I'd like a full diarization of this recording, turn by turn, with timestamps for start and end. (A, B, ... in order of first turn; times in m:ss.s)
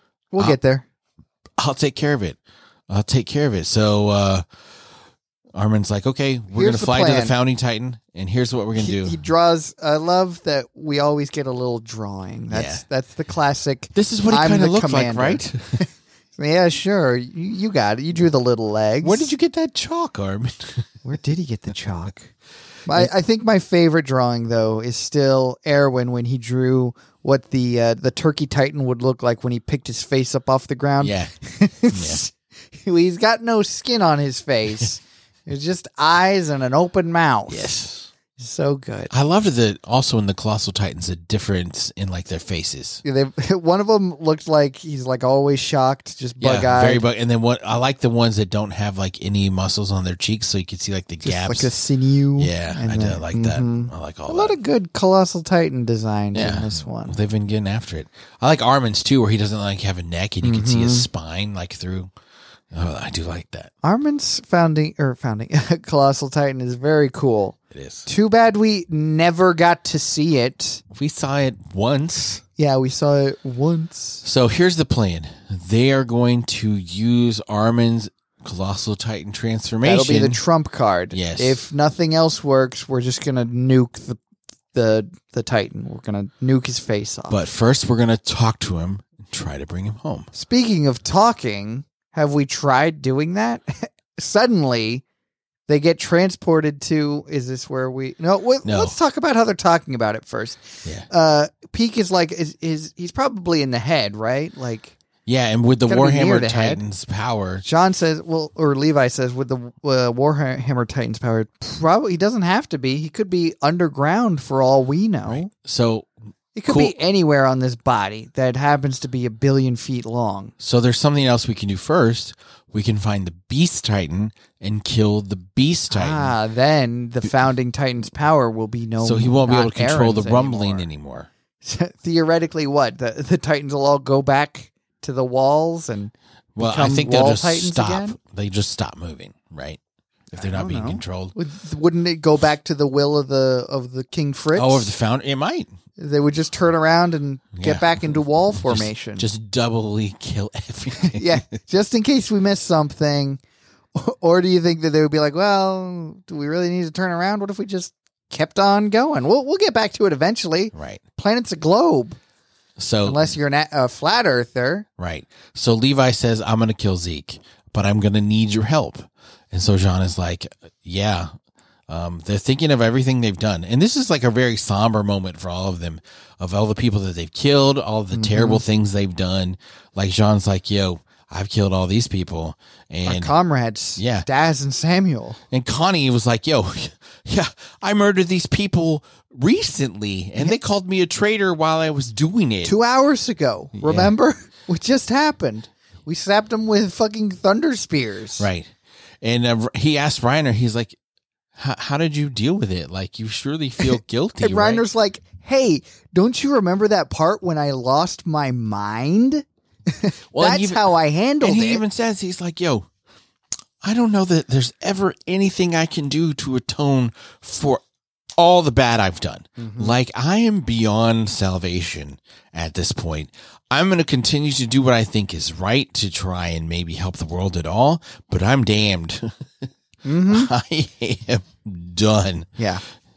0:00.3-0:00.8 A
0:01.6-0:02.4 B
0:02.9-0:04.4 B
0:05.5-0:09.2 B
0:06.5-0:07.4 A
0:08.8-0:19.3 A
0:12.5-0:12.8 B
0:13.9-0:15.8 B
0:19.0-0:20.8 B
0:21.0-0:22.3 A
0:22.9-0:37.8 A
0:31.0-0:31.3 B
0:31.9-0:32.2 B
0:37.5-0:38.1 B
0:38.4-0:39.1 A
0:39.1-0:43.0 B
0:43.0-0:47.0 A
0:46.4-0:51.7 B
0:51.2-0:57.2 A
0:52.4-0:54.6 B
0:56.3-1:02.1 B
1:00.4-1:01.1 A
1:02.7-1:03.7 B
1:03.8-1:10.8 A
1:07.7-1:08.1 B
1:10.9-1:12.4 B
1:12.6-1:14.2 A
1:14.2-1:20.4 B
1:19.8-1:24.2 A
1:21.1-1:21.6 B
1:24.7-1:27.4 A
1:27.3-1:30.3 B
1:30.3-1:35.0 A
1:35.7-1:45.0 A
1:38.6-1:39.0 B
1:45.3-1:47.6 B
1:45.9-1:46.8 A
1:47.6-1:55.5 A
1:55.3-1:56.1 B
1:56.6-2:00.5 A
1:56.7-1:56.9 B
2:00.6-2:06.4 B
2:05.9-2:10.9 A
2:09.0-2:11.3 B
2:11.6-2:18.2 A
2:16.6-2:19.8 B
2:20.3-2:24.9 A
2:20.3-2:21.4 B
2:24.5-2:25.7 B
2:26.0-2:29.3 A
2:27.6-2:31.4 B
2:30.9-2:33.4 A
2:34.0-2:42.2 A
2:40.7-2:41.0 B
2:42.8-2:43.4 B
2:43.0-2:44.9 A
2:45.0-2:51.3 B
2:51.9-3:03.4 B
2:58.1-2:58.6 A
3:03.1-3:05.4 A
3:04.0-3:04.3 B
3:05.5-3:12.8 B
3:12.6-3:18.5 A
3:13.8-3:14.1 B
3:18.4-3:21.0 B
3:21.6-3:24.8 B
3:23.8-3:31.8 A
3:30.3-3:32.9 B
3:33.8-3:37.8 B
3:38.4-3:49.7 B
3:39.6-3:40.0 A
3:50.0-3:50.5 A
3:50.3-3:52.6 B
3:52.6-3:52.8 A